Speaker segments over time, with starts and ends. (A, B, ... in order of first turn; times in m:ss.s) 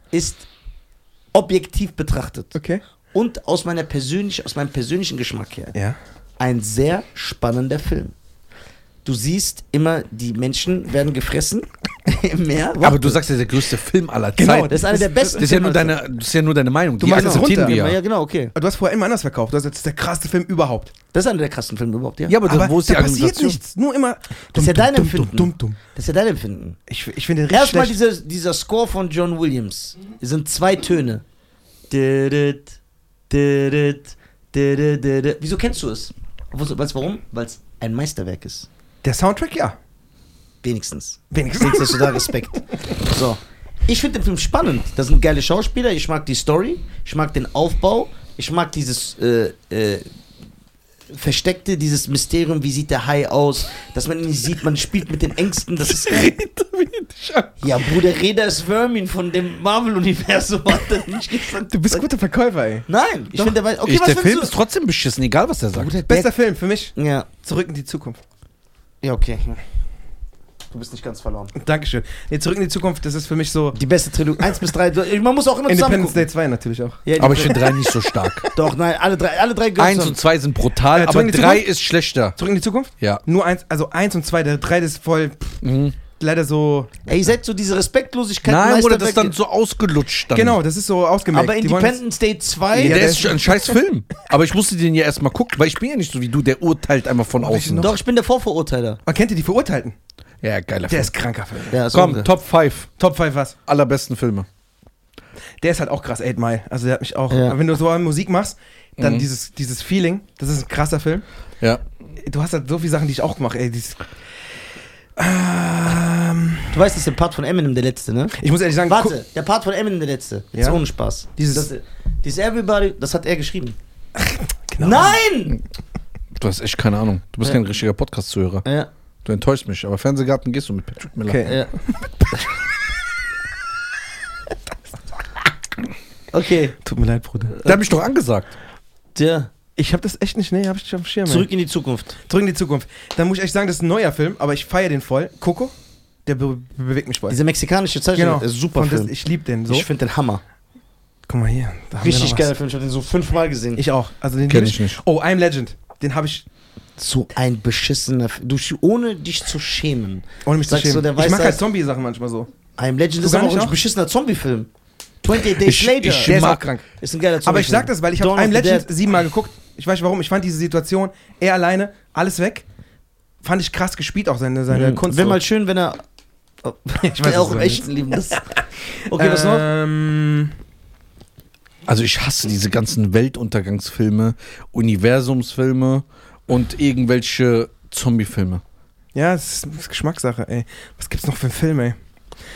0:00.1-0:00.4 A
0:01.3-0:02.6 A
0:02.6-0:02.8 B
0:03.1-0:05.7 A
0:05.7-0:06.0 B
0:06.4-0:08.2 A
0:09.0-0:13.2 A
0:12.8-0:18.0 C
0:14.4-0:15.4 B
0:14.7-0:16.0 A
0:17.0-0:17.8 B
0:17.0-0:18.5 A
0:18.5-0:20.9 B
0:21.1-0:22.4 A
0:22.3-0:23.6 C
0:22.4-0:25.8 B
0:24.5-0:26.8 A
0:26.9-0:28.0 B
0:27.5-0:31.2 A
0:31.9-0:32.8 A
0:33.3-0:38.7 A
0:39.0-0:39.8 B
0:40.6-0:50.1 A
0:41.3-0:42.6 B
0:51.1-0:56.3 A
0:55.9-0:57.5 C
0:57.6-1:02.1 A
1:01.7-1:02.9 B
1:02.9-1:04.5 A
1:03.8-1:05.9 C
1:05.7-1:06.3 A
1:06.0-1:08.2 B
1:07.0-1:07.3 A
1:09.0-1:09.6 A
1:10.7-1:11.6 A
1:11.6-1:13.8 B
1:13.7-1:16.2 A
1:15.7-1:18.5 B
1:17.0-1:17.7 A
1:17.2-1:18.5 C
1:18.5-1:20.2 A
1:19.8-1:22.4 C
1:20.8-1:21.7 B
1:22.4-1:25.6 B
1:25.6-1:26.0 C
1:26.2-1:26.9 B
1:27.1-1:29.3 A
1:28.5-1:30.6 C
1:30.3-1:32.0 B
1:31.3-1:33.2 A
1:32.7-1:33.6 B
1:32.8-1:37.9 C
1:37.4-1:38.0 B
1:37.8-1:39.0 A
1:39.1-1:40.0 B
1:40.4-1:41.1 C
1:40.9-1:41.8 B
1:41.7-1:42.3 A
1:41.9-1:42.9 C
1:43.0-1:43.6 B
1:43.7-1:44.5 C
1:45.6-1:51.2 B
1:47.3-1:47.6 A
1:49.0-1:49.2 C
1:52.2-1:54.0 B
1:55.2-1:56.8 B
1:56.7-2:03.8 A
1:58.4-1:59.2 B
2:00.5-2:00.8 B
2:01.4-2:01.7 B
2:04.2-2:05.2 B
2:04.8-2:05.6 A
2:06.3-2:08.7 C
2:08.6-2:08.9 A
2:09.2-2:11.5 C
2:11.2-2:11.6 B
2:11.4-2:11.7 A
2:16.3-2:16.8 A
2:16.8-2:17.6 B
2:17.6-2:18.5 C
2:19.2-2:19.5 A
2:19.8-2:21.5 B
2:21.3-2:22.2 A
2:22.2-2:25.7 B
2:26.3-2:27.4 B
2:27.3-2:29.1 A
2:28.1-2:29.9 B
2:29.7-2:30.4 A
2:31.3-2:32.5 B
2:32.0-2:33.8 A
2:33.8-2:36.5 B
2:34.5-2:35.0 C
2:37.0-2:41.6 A
2:40.4-2:42.5 B
2:42.8-2:44.7 A
2:43.2-2:43.8 B
2:45.2-2:46.4 A
2:45.5-2:46.6 C
2:46.2-2:46.9 B
2:47.0-2:48.9 A
2:47.4-2:52.6 B
2:53.4-2:55.4 B
2:54.7-2:56.0 A
2:56.6-2:58.4 A
2:57.0-2:58.4 B
2:59.1-3:00.5 B
2:59.1-2:59.6 A
3:01.9-3:08.6 C
3:09.1-3:12.0 B